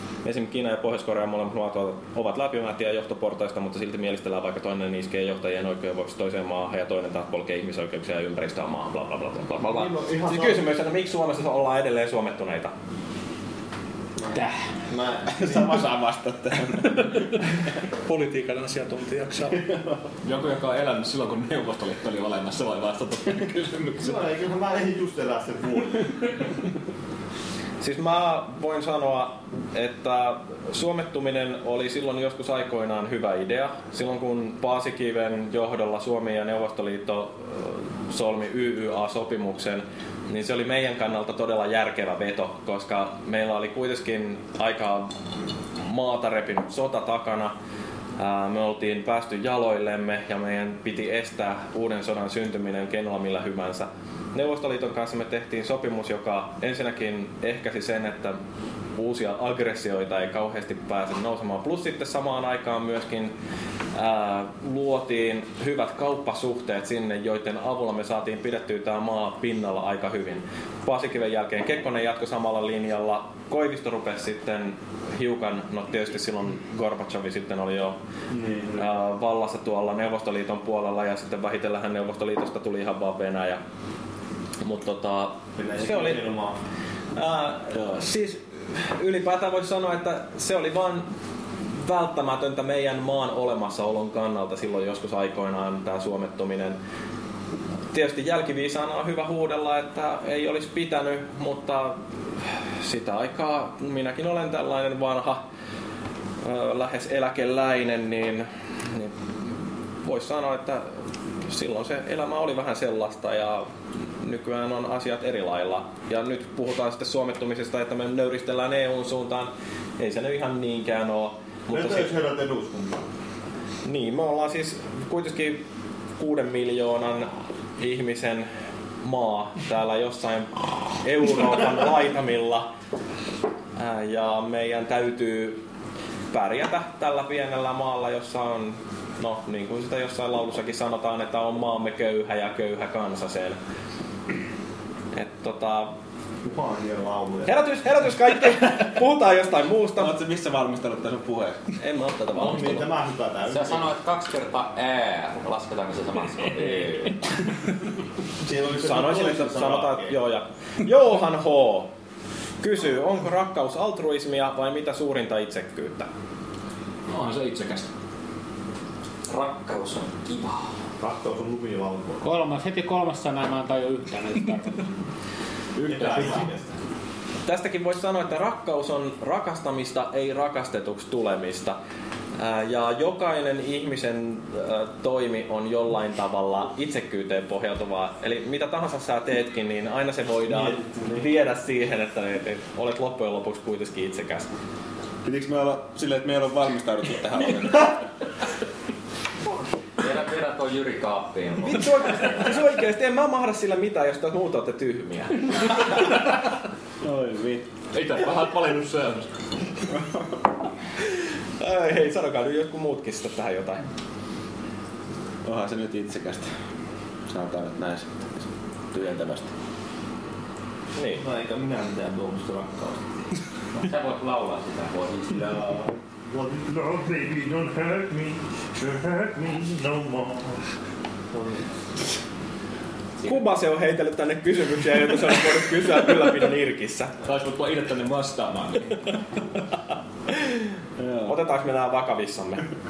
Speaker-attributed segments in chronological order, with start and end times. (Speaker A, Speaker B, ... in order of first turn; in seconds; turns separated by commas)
Speaker A: 0.2-12.7, Speaker B: 9.6-10.6, Speaker B: 14.3-15.8, Speaker C: 15.3-17.1, Speaker D: 16.9-17.3, Speaker D: 18.1-19.6, Speaker E: 20.2-24.1, Speaker B: 24.0-26.1, Speaker A: 27.8-45.1, Speaker A: 45.8-47.5, Speaker A: 48.2-58.4, Speaker A: 59.0-63.3, Speaker A: 63.9-77.9, Speaker B: 78.3-79.0, Speaker A: 78.8-83.6, Speaker A: 84.6-86.2, Speaker B: 85.5-86.6, Speaker A: 87.2-91.1, Speaker A: 91.7-96.8, Speaker A: 97.9-102.0, Speaker A: 102.8-105.4, Speaker A: 106.4-109.5, Speaker A: 110.0-110.9, Speaker A: 111.4-113.7, Speaker A: 114.2-122.1, Speaker B: 121.7-123.0, Speaker A: 123.8-125.6, Speaker A: 126.2-128.5, Speaker A: 129.0-132.7, Speaker A: 133.8-135.6, Speaker A: 136.3-143.6, Speaker A: 145.1-145.9, Speaker B: 146.4-147.5, Speaker A: 147.4-150.1, Speaker C: 150.0-151.6, Speaker A: 151.8-152.9, Speaker B: 152.3-153.9, Speaker F: 153.5-157.2, Speaker B: 158.4-160.1, Speaker A: 158.7-161.9, Speaker A: 162.6-166.1, Speaker E: 167.1-167.9, Speaker F: 169.3-170.7, Speaker B: 171.0-172.2, Speaker G: 172.2-174.8, Speaker E: 175.8-176.4, Speaker B: 175.8-176.7, Speaker A: 177.4-181.8, Speaker A: 182.4-194.5, Speaker B: 190.5-191.3, Speaker C: 195.2-197.9, Speaker F: 200.0-202.5, Speaker A: 201.6-205.7, Speaker C: 207.0-207.7, Speaker E: 207.9-209.3, Speaker A: 211.6-213.8, Speaker C: 215.4-216.5, Speaker C: 217.3-219.5, Speaker A: 220.9-221.2, Speaker B: 221.1-223.1, Speaker F: 223.7-225.4, Speaker B: 225.4-230.6, Speaker B: 231.3-231.7, Speaker A: 233.2-237.1, Speaker E: 237.2-238.9, Speaker C: 241.0-241.4, Speaker A: 241.2-242.7